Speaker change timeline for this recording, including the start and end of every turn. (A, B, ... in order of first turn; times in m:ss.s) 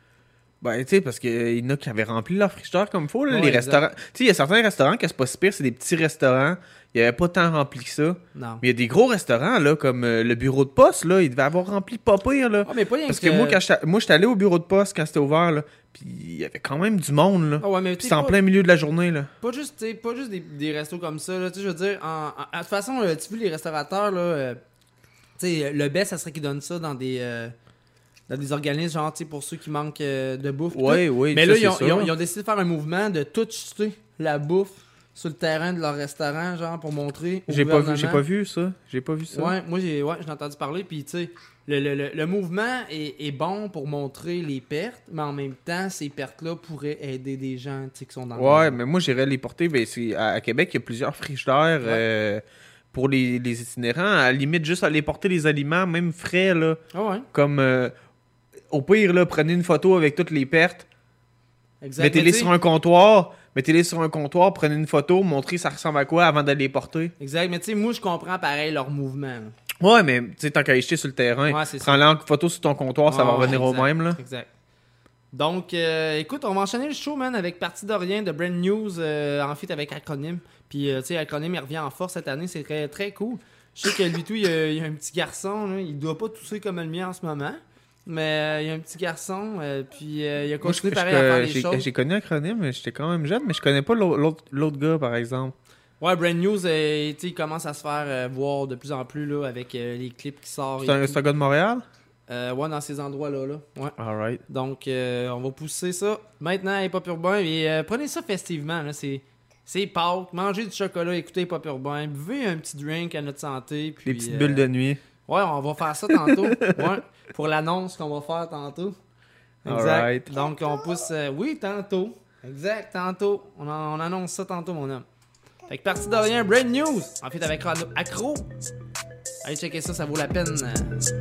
0:00.6-0:19.3 A
0:03.3-0:03.8 B
0:08.4-0:08.6 B
0:12.6-0:13.6 B
0:17.6-0:18.4 B
0:19.4-0:24.6 B
0:25.4-0:27.5 B
0:28.3-0:38.2 B
0:30.7-0:32.1 A
0:37.5-0:39.5 A
0:39.3-0:48.8 B
0:48.3-0:56.8 A
0:56.9-0:57.2 B
0:57.3-0:57.9 A
0:58.7-1:00.8 A
1:01.8-1:02.5 B
1:02.0-1:07.1 A
1:07.2-1:09.5 B
1:09.8-1:14.2 A
1:11.5-1:12.0 B
1:13.1-1:14.5 B
1:15.3-1:31.9 B
1:30.6-1:35.5 A
1:36.0-1:41.2 B
1:40.8-1:41.8 A
1:42.3-1:43.9 B
1:44.0-1:44.4 A
1:44.5-1:54.6 B
1:54.0-1:55.0 A
1:55.2-1:59.0 B
1:56.2-1:56.8 A
1:59.6-2:00.3 A
1:59.6-2:05.0 B
2:05.7-2:08.4 B
2:09.4-2:10.9 B